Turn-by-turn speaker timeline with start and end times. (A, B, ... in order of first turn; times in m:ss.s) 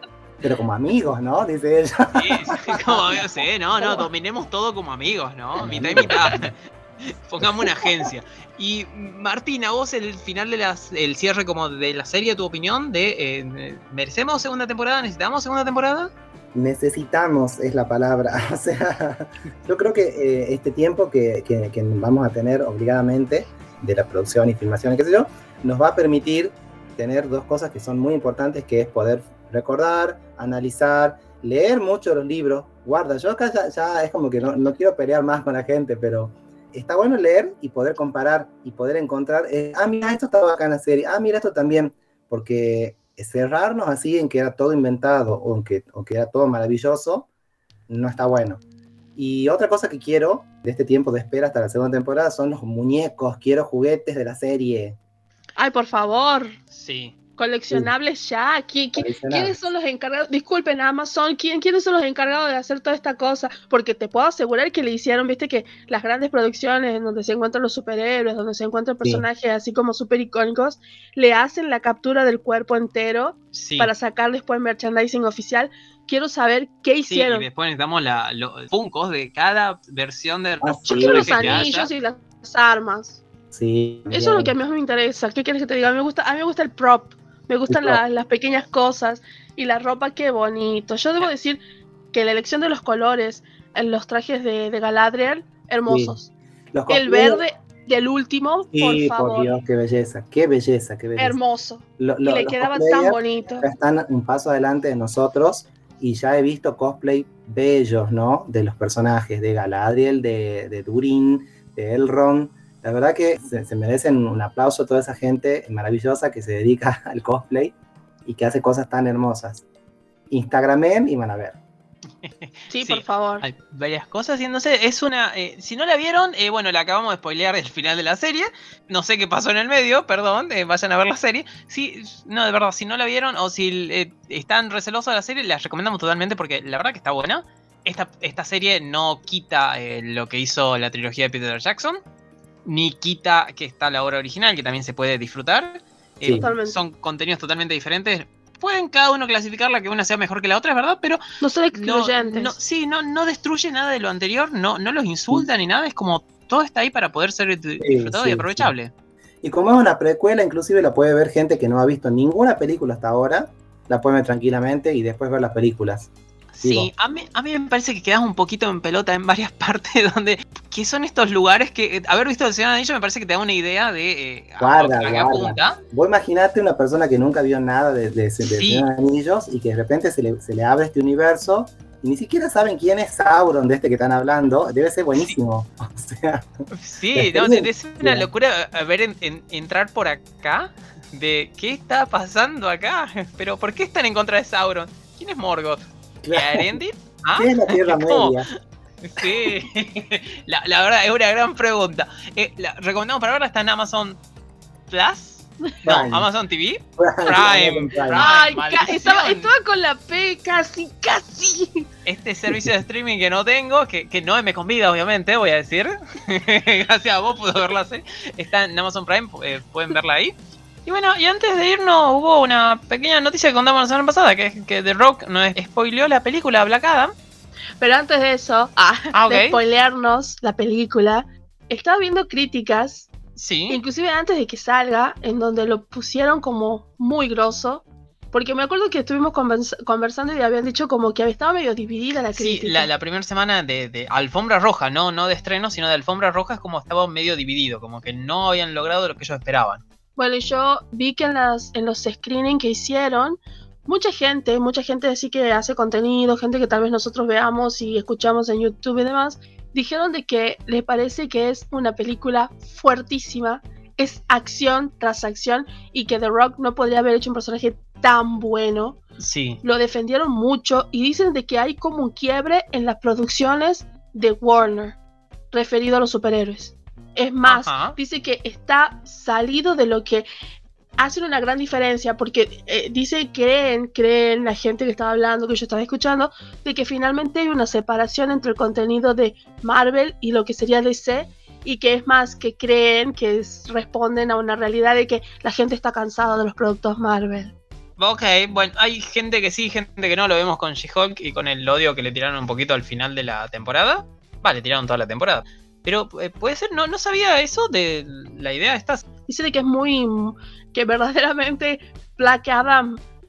0:00.4-0:03.0 A
0:02.2-0:16.1 B
0:05.6-0:06.5 A
0:16.5-0:47.3 A
0:47.9-0:48.6 A
0:49.2-0:55.0 A
0:55.6-0:56.6 C
0:56.7-0:57.2 B
0:57.4-1:17.5 C
0:59.0-0:59.7 A
1:13.5-1:13.9 B
1:17.1-1:21.9 B
1:20.6-1:21.7 A
1:20.9-1:23.2 C
1:23.5-1:24.5 A
1:24.1-1:31.6 C
1:27.7-1:28.0 A
1:32.1-1:36.3 C
1:35.9-1:36.2 A
1:36.7-1:37.4 A
1:36.9-1:39.6 C
1:38.7-1:41.4 A
1:41.2-1:43.7 C
1:42.0-1:57.7 A
1:58.2-1:59.7 A
2:00.3-2:01.6 A
2:02.2-2:22.0 B
2:02.7-2:03.5 C
2:22.7-2:31.2 B
2:26.2-2:26.5 A
2:26.3-2:26.8 C
2:31.4-2:32.6 C
2:31.7-2:38.9 B
2:37.8-2:38.7 A
2:39.4-2:46.1 A
2:46.5-2:55.8 B
2:46.6-2:46.9 A
2:54.6-3:06.5 A
2:58.5-2:58.9 B
3:06.7-3:15.8 B
3:07.1-3:08.3 A
3:16.2-3:16.8 A
3:16.3-3:24.2 B
3:17.4-3:18.5 A
3:24.9-3:29.5 B
3:25.8-3:26.3 A
3:27.0-3:28.2 A
3:28.2-3:31.8 C
3:32.1-3:40.3 B
3:40.9-3:47.1 B
3:47.8-3:53.1 C
3:49.1-3:49.6 B
3:53.4-3:53.8 B
3:53.7-4:02.9 C
4:02.4-4:09.8 B
4:10.2-4:29.0 C
4:29.2-4:29.6 B
4:29.6-4:35.0 C
4:35.5-4:40.3 C
4:37.5-4:38.0 B
4:41.0-4:57.6 C
4:58.0-5:09.0 B
5:09.3-5:13.0 C